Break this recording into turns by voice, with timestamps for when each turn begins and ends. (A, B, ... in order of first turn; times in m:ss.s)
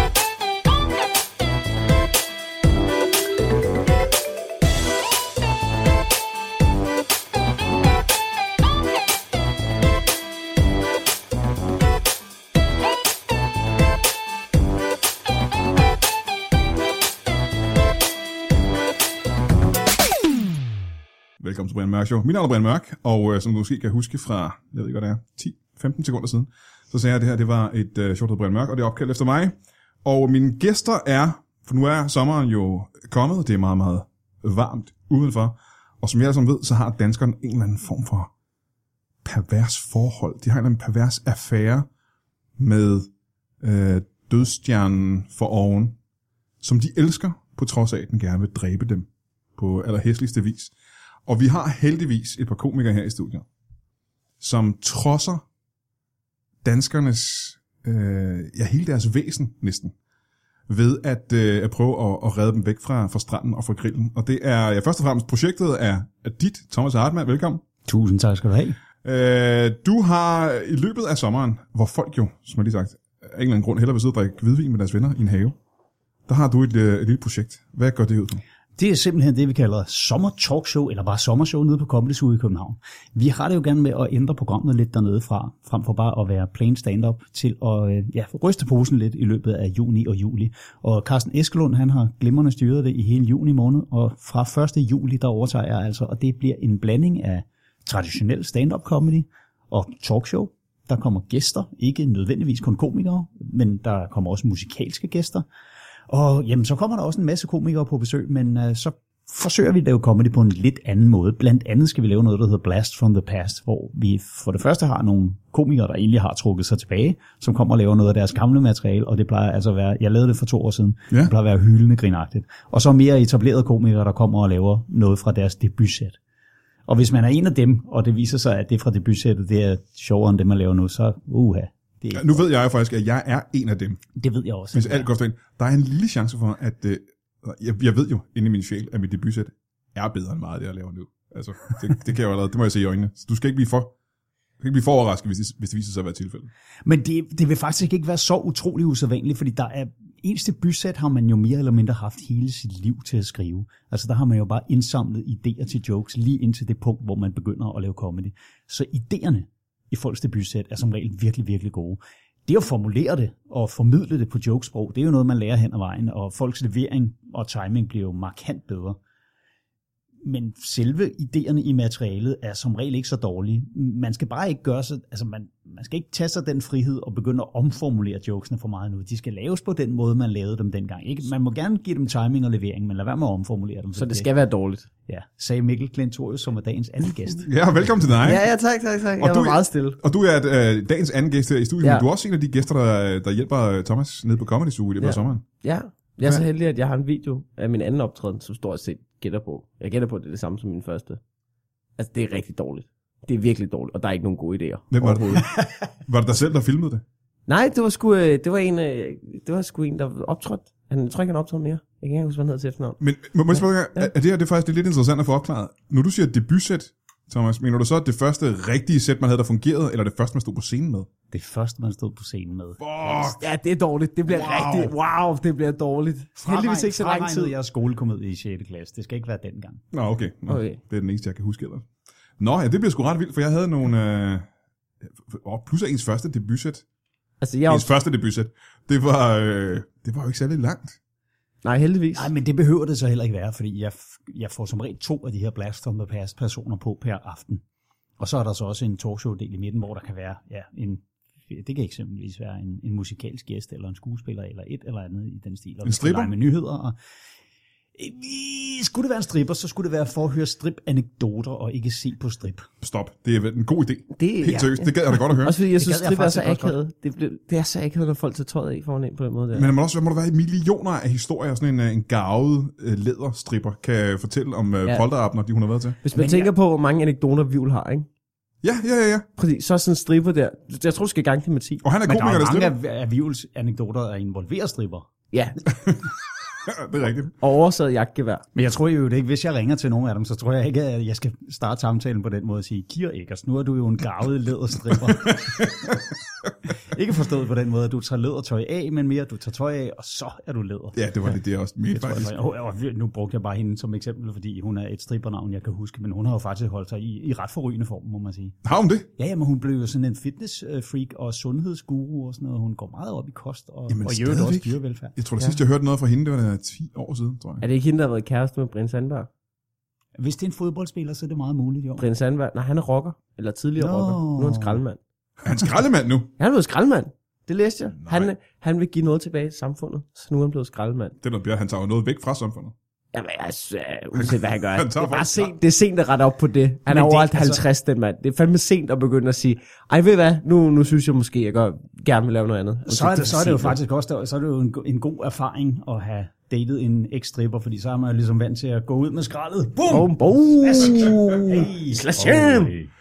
0:21.4-0:38.3 A
0:39.2-0:41.9 A
0:42.6-0:43.1 A
0:43.6-0:46.0 A
0:46.6-0:50.7 A
0:51.3-0:53.4 A
0:54.4-0:55.4 A
0:56.6-0:59.9 A
1:00.7-1:07.6 A
1:07.8-1:08.8 B
1:09.0-1:15.5 A
1:16.3-1:18.4 A
1:18.8-1:45.4 B
1:46.1-2:06.2 B
2:06.9-2:12.4 B
2:12.1-2:14.0 A
2:14.1-2:15.1 B
2:14.7-2:23.9 A
2:24.6-2:26.5 A
2:26.8-2:49.0 B
2:50.2-3:04.3 B
3:03.9-3:04.9 C
3:05.1-3:07.5 B
3:07.4-3:08.4 A
3:08.2-3:10.0 C
3:09.2-3:15.4 A
3:15.0-3:21.2 C
3:22.0-3:25.4 C
3:24.9-3:25.5 A
3:26.0-3:27.0 A
3:27.5-3:33.0 C
3:33.0-3:41.1 A
3:33.5-3:34.1 C
3:41.3-3:43.4 B
3:42.8-3:43.4 A
3:43.4-3:47.5 C
3:44.3-3:44.9 B
3:44.4-3:44.9 A
3:46.4-3:49.8 B
3:49.9-3:51.8 A
3:50.5-3:50.8 C
3:52.4-3:54.5 A
3:55.0-3:56.8 A
3:57.4-3:57.9 C
3:57.7-4:01.0 A
4:01.6-4:02.3 C
4:02.1-4:07.6 B
4:08.2-4:16.9 B
4:15.8-4:16.3 A
4:18.0-4:22.7 B
4:22.8-4:25.6 A
4:24.2-4:29.7 C
4:25.8-4:26.8 B
4:29.5-4:36.0 A
4:36.0-4:38.1 C
4:36.1-4:36.5 B
4:38.6-4:39.3 A
4:39.4-4:41.8 C
4:41.8-4:42.7 A
4:42.0-4:45.1 B
4:45.3-4:45.6 C
4:45.8-4:46.1 A
4:46.6-4:47.3 A
4:47.4-4:48.4 C
4:48.5-4:55.8 B
4:55.2-4:56.0 A
4:56.7-5:01.3 B
5:00.9-5:02.3 A
5:01.9-5:08.6 B
5:08.6-5:09.1 A
5:09.2-5:15.6 B
5:13.9-5:17.6 A
5:17.6-5:19.3 C
5:20.2-5:22.0 B
5:22.0-5:25.0 C
5:23.8-5:24.8 B
5:25.4-5:26.3 A
5:26.4-5:31.2 C
5:28.0-5:28.3 A
5:31.2-5:32.7 A
5:33.1-5:43.8 C
5:34.1-5:35.5 A
5:36.9-5:37.6 B
5:42.8-5:52.9 B
5:49.9-5:52.7 C